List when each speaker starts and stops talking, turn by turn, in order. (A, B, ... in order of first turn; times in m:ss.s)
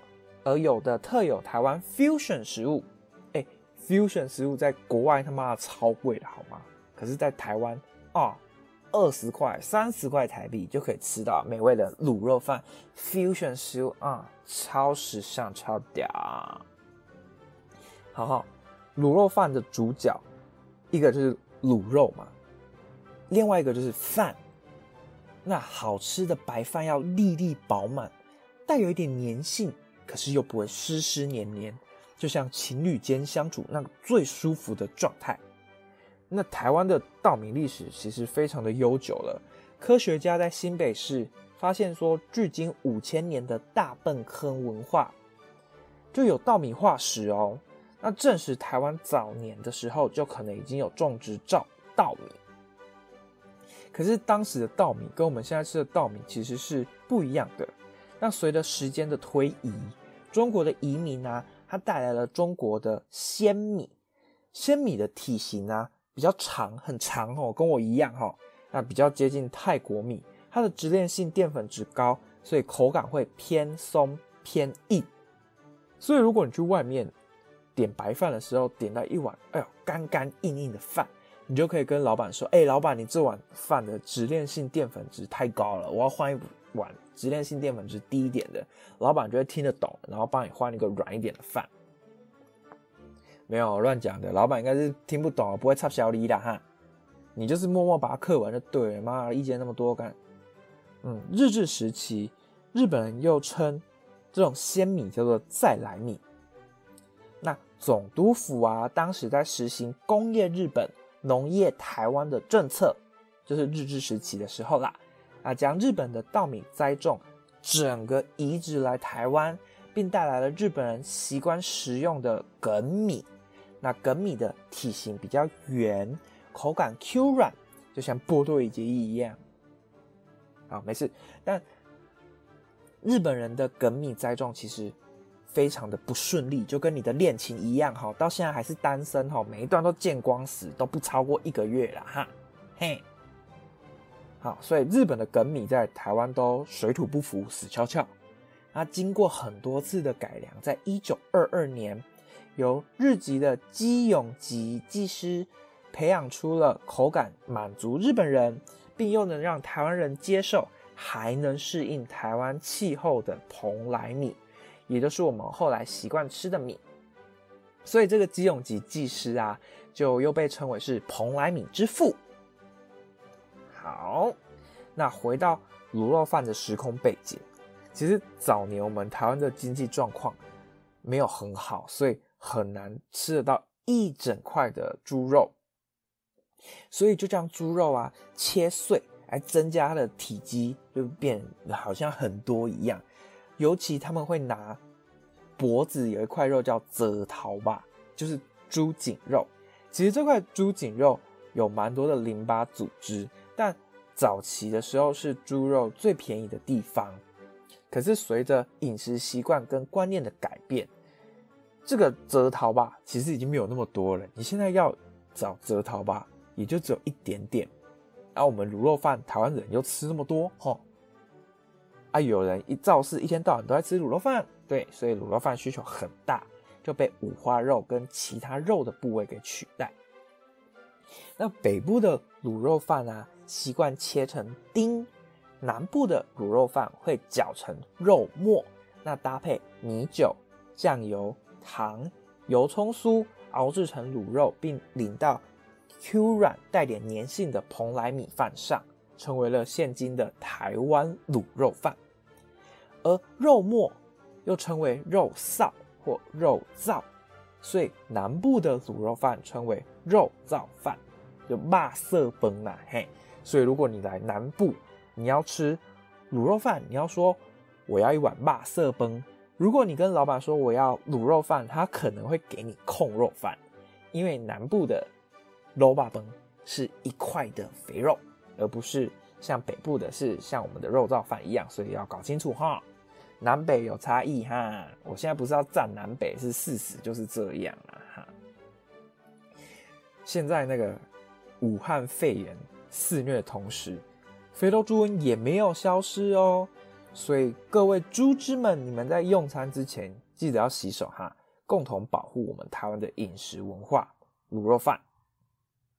0:00.4-0:16.6 A
0:18.1-0:20.2 A
0:20.9-0:22.3 A
0:23.3-0:24.4 A
0:25.4-0:28.1 A
0:28.7-0:35.4 A
0:36.3-0:45.2 A
0:46.1-0:52.4 A
0:53.9-1:03.9 A
1:04.5-1:15.1 A
1:16.0-1:17.1 A
1:17.8-1:31.7 A
1:33.5-1:36.6 A
1:37.4-1:40.2 A
1:41.0-1:46.2 A
1:47.4-2:03.3 A
2:03.8-2:09.4 A
2:10.7-2:11.6 A
2:13.0-2:23.0 A
2:24.4-2:28.1 A
2:28.7-2:46.8 A
2:47.8-2:52.2 A
2:53.7-2:54.4 A
2:55.0-3:00.4 A
3:01.0-3:05.6 A
3:06.9-3:13.0 A
3:13.6-3:14.8 A
3:15.6-3:27.2 A
3:27.9-3:30.9 A
3:31.8-3:37.7 A
3:38.4-3:40.8 A
3:42.1-3:50.0 A
3:51.4-3:55.1 A
3:55.6-4:05.4 A
4:06.0-4:12.0 A
4:13.0-4:17.1 A
4:17.6-4:33.6 A
4:34.1-4:35.1 A
4:35.8-4:42.8 A
4:43.4-4:48.3 A
4:50.2-4:51.0 A
4:51.6-5:05.0 A